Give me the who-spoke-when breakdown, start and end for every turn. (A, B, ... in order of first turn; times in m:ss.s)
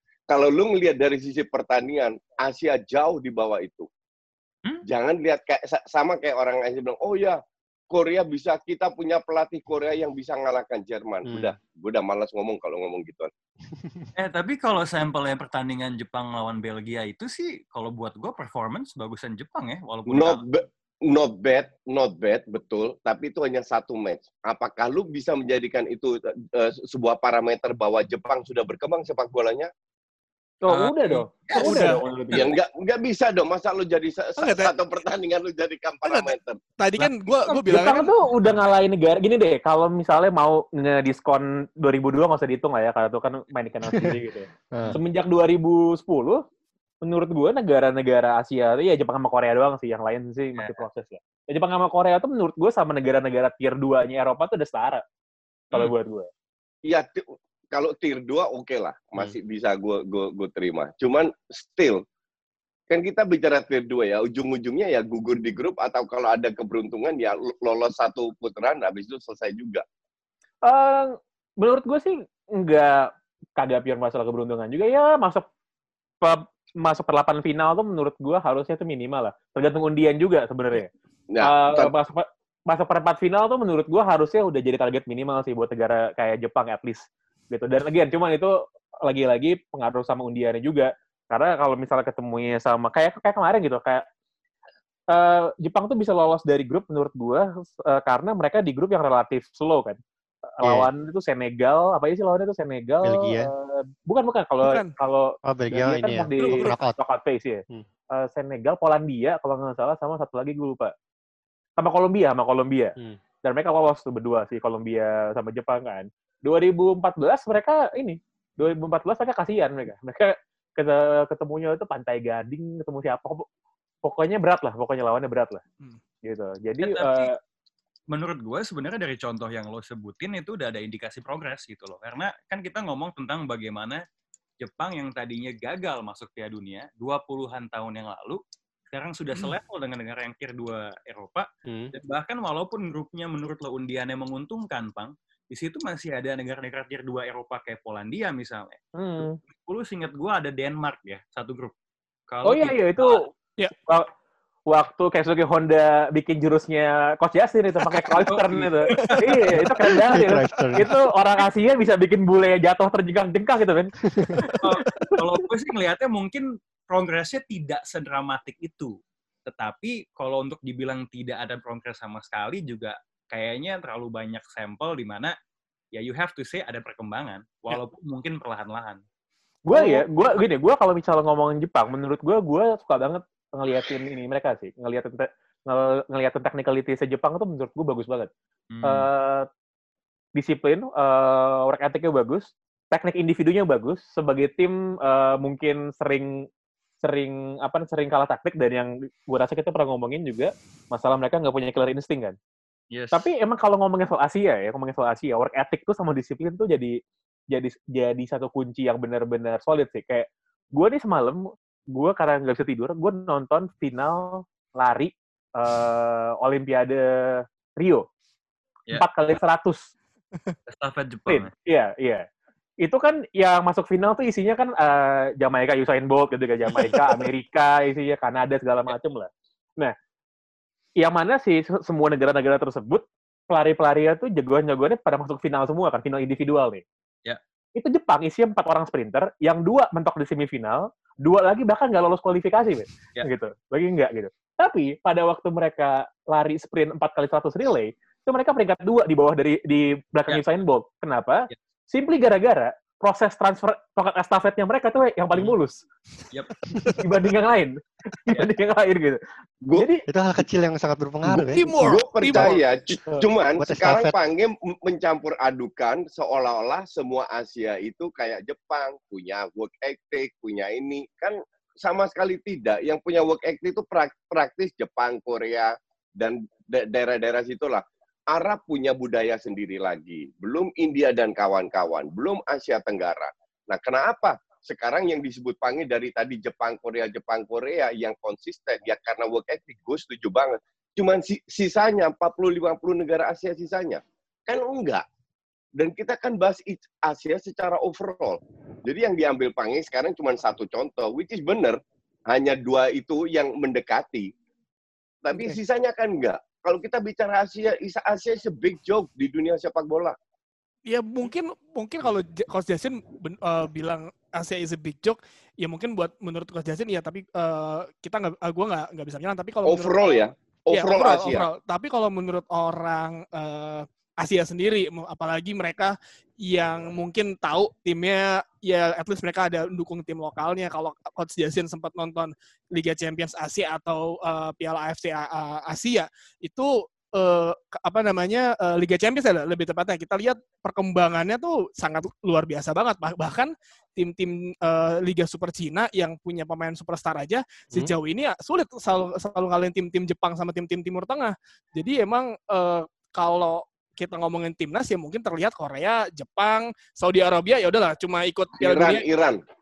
0:00.3-0:03.9 A
0:04.8-0:07.4 A
0:07.9-0:13.3 A
0:11.2-0:11.5 B
0:13.7-0:14.0 B
0:14.2-0:20.4 C
0:20.1-0:29.7 A
0:30.6-0:32.5 D
0:31.5-0:32.0 E
0:32.3-0:36.6 A
0:34.4-0:34.7 E
0:36.0-0:38.1 E
0:37.0-0:38.0 C
0:37.6-0:46.4 D
0:43.9-0:44.1 B
0:44.7-0:45.0 B
0:47.0-0:55.0 D
0:50.6-0:50.8 C
0:55.7-0:56.3 D
0:56.8-1:02.0 A
1:02.9-1:09.8 A
1:10.6-1:15.4 D
1:16.2-1:20.9 D
1:21.3-1:21.9 A
1:21.4-1:28.5 D
1:29.1-1:34.0 D
1:35.1-1:40.0 D
1:40.6-1:47.6 D
1:40.6-1:40.9 B
1:43.0-1:43.5 B
1:44.6-1:44.9 E
1:45.4-1:47.0 B
1:48.1-1:50.9 D
1:51.8-2:03.4 D
2:04.0-2:05.6 D
2:06.2-2:07.3 D
2:06.8-2:07.3 C
2:08.1-2:14.0 C
2:14.6-2:18.4 C
2:18.9-2:28.8 C
2:21.7-2:21.9 B
2:29.0-2:29.4 D
2:29.6-2:31.7 C
2:32.3-2:33.2 C
2:32.4-2:33.3 D
2:34.7-2:44.5 D
2:38.3-2:39.2 C
2:38.9-2:39.5 E
2:40.1-2:40.9 B
2:44.5-2:45.1 E
2:44.6-2:48.9 C
2:49.5-2:55.3 C
2:55.9-2:59.0 C
2:59.7-3:08.3 D
3:08.7-3:09.1 C
3:08.8-3:09.5 D
3:10.4-3:16.3 D
3:17.0-3:22.4 D
3:22.9-3:23.2 C
3:23.1-3:27.0 D
3:27.5-3:31.4 D
3:31.9-3:38.0 D
3:38.9-3:39.9 D
3:40.7-3:41.5 C
3:41.3-3:42.2 D
3:42.8-3:49.9 D
3:46.6-3:47.3 C
3:51.0-3:56.8 D
3:57.8-4:15.8 D
4:17.0-4:19.2 D
4:19.7-4:20.0 D
4:20.1-4:21.6 B
4:21.3-4:22.6 E
4:21.7-4:55.0 A
4:23.0-4:24.1 B
4:55.8-5:04.3 A
5:05.2-5:10.2 A
5:05.3-5:05.6 E
5:10.8-5:20.0 E
5:19.6-5:21.5 A
5:20.7-5:59.0 E
5:58.6-5:59.4 A